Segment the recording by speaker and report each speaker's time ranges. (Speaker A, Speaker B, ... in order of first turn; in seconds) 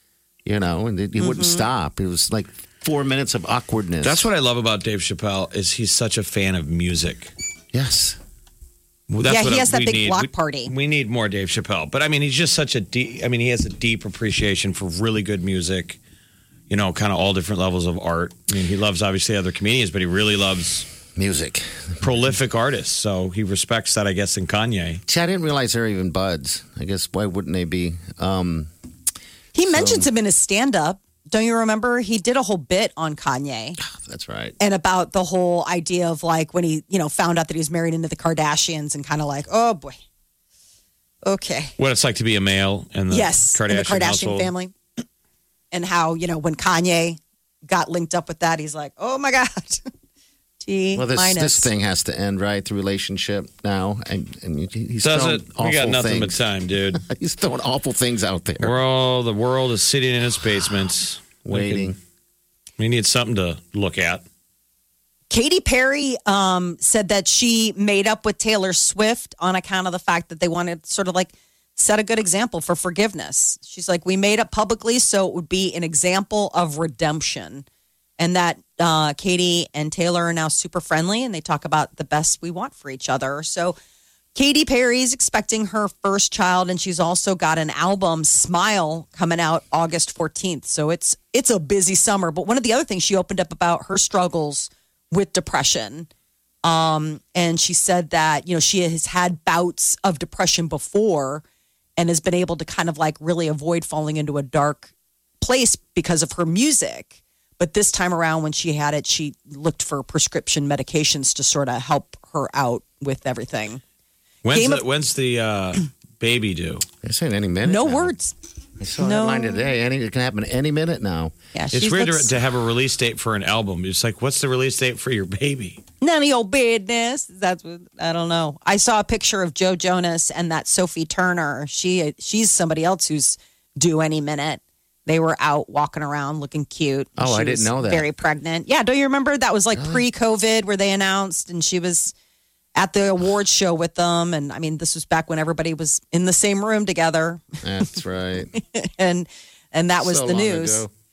Speaker A: 0.4-4.2, 7.7-8.2, 21.1-22.1, 25.1-28.7, 29.6-30.1, 33.8-34.5, 50.9-56.4, 56.9-58.8, 61.4-62.0, 117.0-118.1, 118.8-121.3, 137.2-138.1, 139.7-140.0, 147.6-148.5, 150.0-150.9
Speaker B: 1.2-1.6, 9.2-10.7, 29.5-33.8, 34.6-40.0, 41.2-41.7, 43.1-44.7, 45.7-49.8, 50.6-51.7, 65.3-77.6, 78.2-83.8, 84.3-96.1, 96.6-101.4, 102.0-113.8, 114.5-114.8, 117.6-118.3, 119.0-119.7, 121.5-122.3, 126.0-142.1, 142.8-147.6, 148.6-150.8
Speaker C: 4.0-7.3, 9.1-16.0, 16.7-20.9, 22.0-25.0, 41.8-44.5, 55.0-57.0, 58.6-61.9, 62.8-64.2, 114.4-116.8, 121.7-125.8